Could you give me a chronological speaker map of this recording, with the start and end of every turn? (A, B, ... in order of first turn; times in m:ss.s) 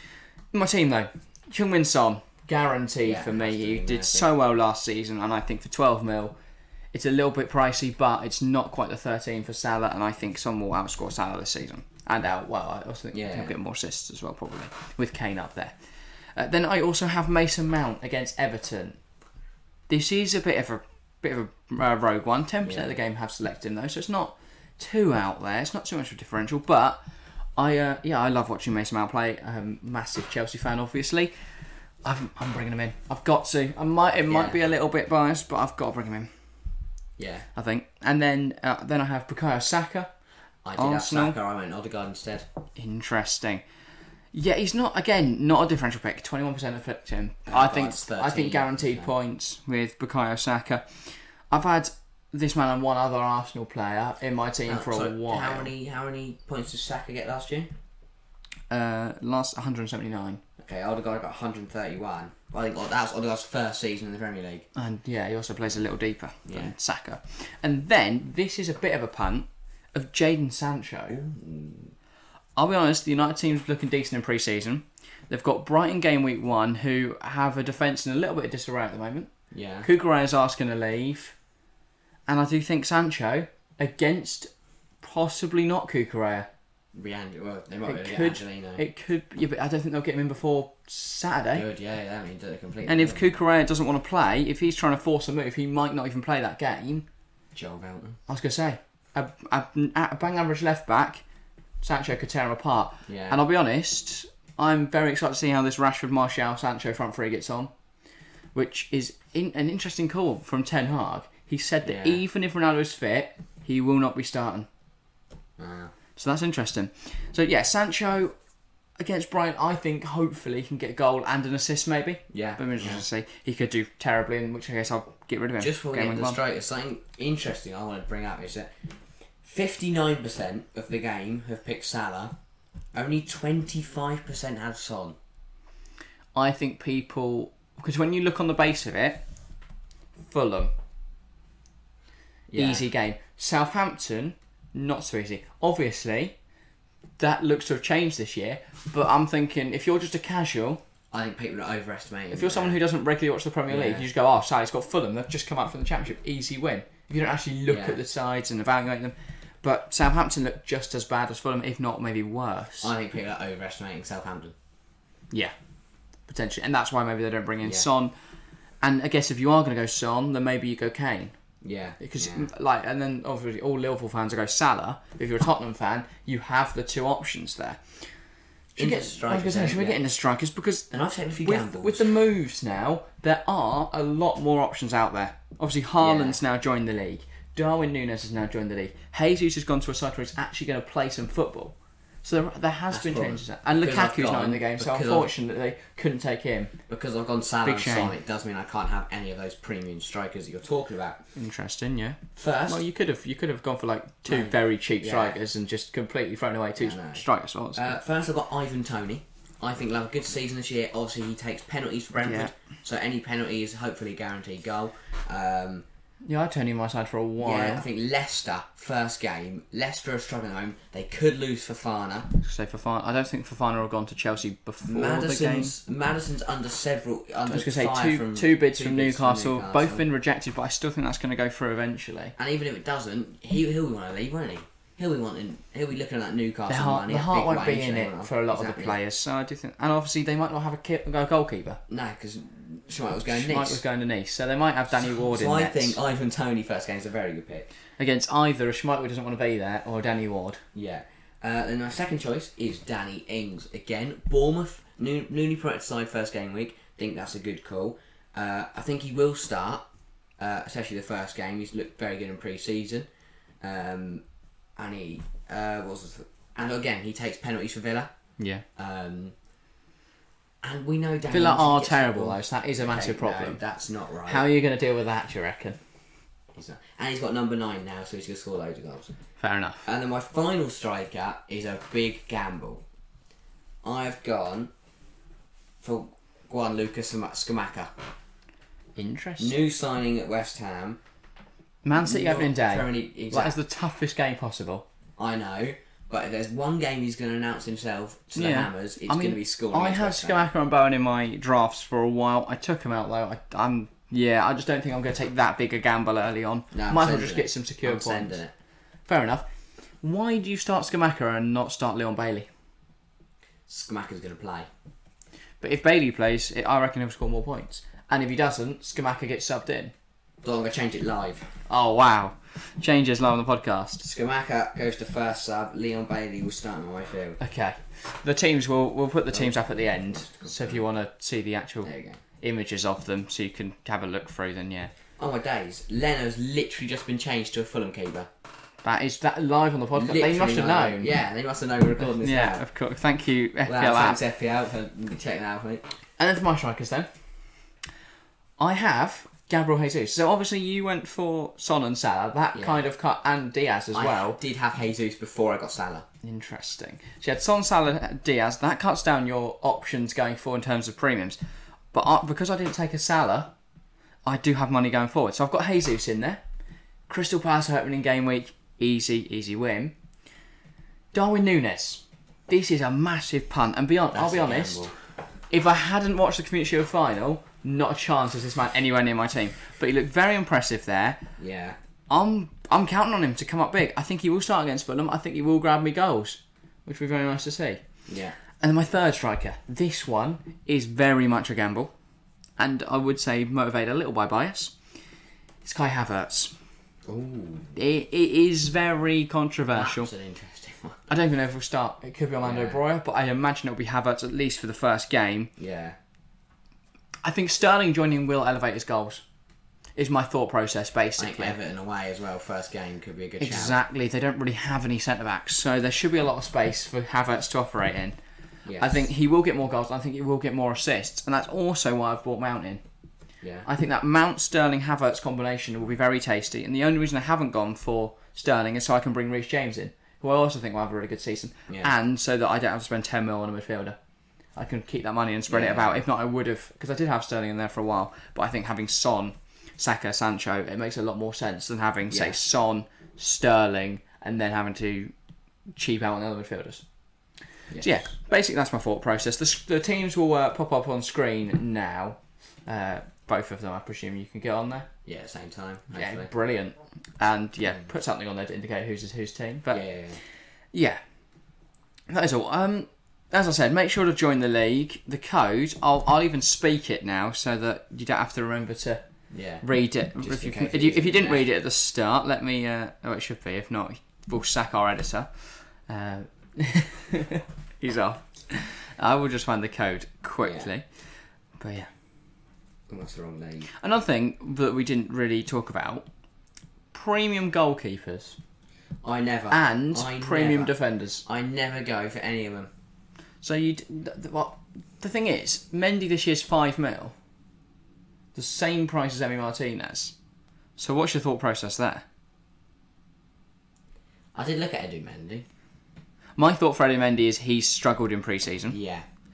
0:00.5-0:06.4 A
0:03.0-0:04.3 B
0:06.9-0:15.8 A
0:13.1-0:13.5 B
0:16.4-0:19.0 A
0:19.9-0:27.0 A
0:22.6-0:22.9 B
0:27.6-0:31.3 A
0:32.0-0:36.3 A
0:34.3-0:34.6 B
0:37.2-0:37.5 B
0:37.6-0:40.1 A
0:40.6-0:42.5 B
0:40.8-0:41.4 A
0:42.8-0:43.6 A
0:44.3-0:50.8 A
0:47.5-0:49.1 B
0:51.5-0:55.7 A
0:54.7-0:57.7 B
0:58.7-1:00.4 A
1:00.6-1:04.7 B
1:04.8-1:11.2 A
1:06.5-1:06.7 B
1:11.1-1:11.9 B
1:12.6-1:19.3 A
1:19.5-1:19.9 B
1:19.8-1:21.4 A
1:22.3-1:24.5 A
1:25.0-1:26.5 A
1:26.9-1:28.8 B
1:27.9-1:31.7 A
1:31.5-1:33.3 B
1:32.8-1:37.1 A
1:37.5-1:38.2 B
1:38.3-1:41.2 A
1:41.8-1:47.7 A
1:43.1-1:43.4 B
1:48.6-1:54.7 A
1:51.8-1:52.2 B
1:55.6-1:55.9 B
1:56.2-1:58.3 A
1:59.0-2:06.4 A
2:02.3-2:03.0 B
2:05.6-2:08.7 B
2:09.4-2:12.4 B
2:12.9-2:15.2 B
2:16.4-2:19.2 A
2:20.3-2:20.7 A
2:22.5-2:22.9 B
2:22.6-2:26.4 A
2:27.2-2:30.8 A
2:31.1-2:32.8 B
2:32.3-2:42.9 A
2:33.7-2:34.1 B
2:37.7-2:38.0 B
2:42.8-2:44.6 B
2:46.3-2:48.1 A
2:48.8-2:51.4 A
2:51.6-2:52.5 B
2:52.0-2:57.8 A
2:58.8-3:00.1 B
2:58.8-3:00.9 A
3:00.9-3:02.1 B
3:01.4-3:16.7 A
3:06.0-3:06.4 B
3:12.9-3:15.3 B
3:16.9-3:21.2 B
3:17.6-3:18.2 A
3:21.4-3:28.0 A
3:22.4-3:22.8 B
3:24.3-3:25.4 B
3:26.8-3:27.2 B
3:27.8-3:35.8 B
3:32.2-3:32.5 A
3:36.3-3:37.9 A
3:37.4-3:42.3 B
3:42.4-3:45.8 A
3:44.9-3:50.0 B
3:47.5-3:52.4 A
3:52.4-3:59.0 B
3:56.7-4:01.8 A
4:01.9-4:03.8 B
4:03.3-4:06.0 A
4:04.9-4:07.7 B
4:08.0-4:10.6 A
4:10.7-4:23.1 B
4:23.6-4:24.2 B
4:24.8-4:28.1 B
4:28.4-4:28.6 A
4:28.8-4:29.3 B
4:30.6-4:34.5 B
4:31.3-4:33.6 A
4:34.3-4:35.8 A
4:36.5-4:39.1 B
4:39.4-4:39.9 A
4:39.8-4:42.8 B
4:43.8-4:44.7 B
4:45.8-4:47.9 B
4:49.0-4:49.6 A
4:49.4-4:51.0 B
4:51.8-4:54.9 A
4:52.0-4:53.6 B
4:55.2-5:00.5 B
4:58.4-5:08.4 A
5:06.7-5:08.5 B
5:09.1-5:09.5 A
5:10.0-5:12.5 A
5:13.7-5:14.7 B
5:15.6-5:19.9 A
5:20.4-5:21.5 B
5:21.7-5:24.0 A
5:24.0-5:27.4 B
5:27.4-5:34.9 A
5:29.3-5:30.8 B
5:31.8-5:32.2 B
5:35.2-5:38.3 B
5:38.8-5:41.1 A
5:40.0-5:42.6 B
5:42.0-5:44.2 A
5:43.7-5:45.9 B
5:46.2-5:47.1 A
5:48.6-5:54.4 A
5:52.6-5:52.8 B
5:53.9-5:56.1 B
5:56.2-6:01.4 A
6:01.9-6:03.5 A
6:04.2-6:06.4 A
6:07.1-6:09.9 A
6:11.1-6:14.9 A
6:14.1-6:14.9 B
6:15.5-6:21.2 A
6:21.4-6:21.8 B
6:22.1-6:27.8 A
6:28.1-6:28.4 B
6:28.6-6:31.9 A
6:32.6-6:34.8 A
6:35.6-6:36.5 A
6:37.1-6:37.7 B
6:37.7-6:40.1 A
6:39.7-6:41.0 B
6:41.1-6:45.5 A
6:42.4-6:42.8 B
6:45.6-6:46.0 B
6:47.2-6:49.2 A
6:50.0-6:51.6 A
6:51.2-6:53.8 B
6:53.4-6:58.2 A
6:58.6-6:59.1 B
6:58.8-7:02.8 A
7:03.4-7:03.7 B
7:03.7-7:14.0 A
7:14.6-7:25.1 A
7:15.5-7:16.0 B
7:22.1-7:22.4 B
7:25.8-7:26.8 A
7:27.8-7:34.9 A
7:35.0-7:36.3 B
7:35.9-7:39.8 A
7:39.7-7:40.2 B
7:40.7-7:41.0 A
7:42.1-7:49.0 A
7:49.3-7:49.7 B
7:49.6-7:55.3 A
7:50.2-7:51.5 B
7:55.9-8:00.9 A
8:00.4-8:00.7 B
8:01.6-8:01.9 A
8:02.9-8:03.7 B
8:03.7-8:06.1 A
8:06.9-8:08.4 A
8:09.0-8:12.7 B
8:09.5-8:11.2 A
8:13.4-8:17.2 A
8:18.4-8:20.2 A
8:20.8-8:22.0 A
8:24.4-8:25.5 B
8:26.4-8:28.8 A
8:28.7-8:29.1 B